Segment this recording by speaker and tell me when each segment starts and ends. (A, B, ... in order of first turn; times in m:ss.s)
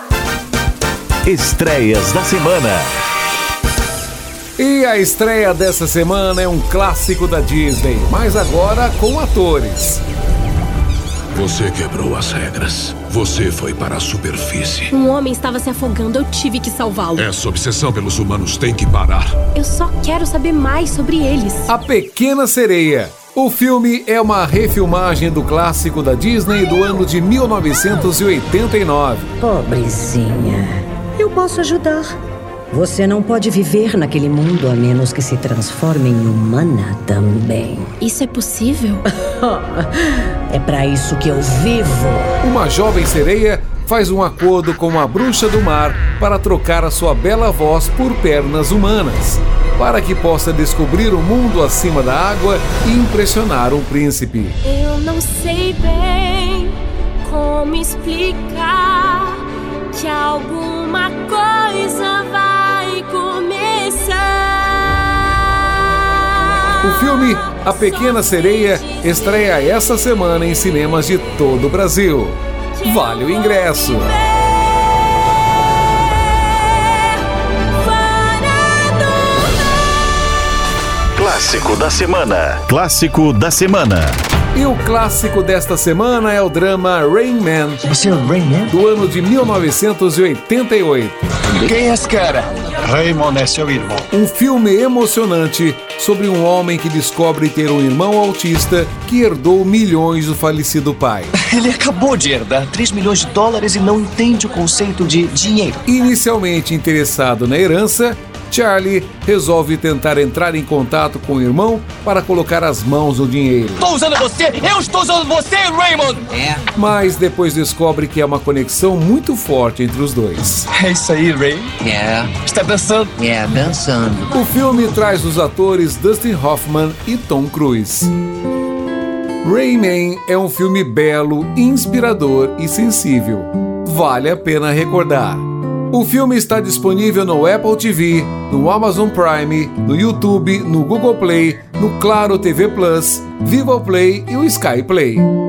0:01.2-0:02.9 A
0:04.6-0:10.0 B
0:11.4-0:14.9 C
0:14.9-0:17.3 D
0:17.2-0:19.4 C
0:19.6-0:21.7 D
0:21.7-0:29.3 B
0:29.4-0:32.1 E
0:32.7-0:38.0 E
0:38.0-0:39.0 D
0:39.3-0:39.8 E
0:40.5-0:42.4 E
0:42.4-0:54.6 B
0:54.6-1:08.7 D
1:06.8-1:14.2 B
1:12.8-1:14.0 D
1:18.0-1:19.6 D
1:21.2-1:24.2 A
1:24.5-1:27.8 B
1:27.9-1:28.7 F
1:28.7-1:31.2 B
1:31.5-1:34.1 F
1:34.1-1:41.3 B
1:41.4-1:45.8 F
1:45.9-1:53.8 B
1:53.8-1:56.6 F
1:56.7-2:00.6 B
2:00.7-2:04.2 F
2:04.3-2:08.1 B
2:09.4-2:25.3 B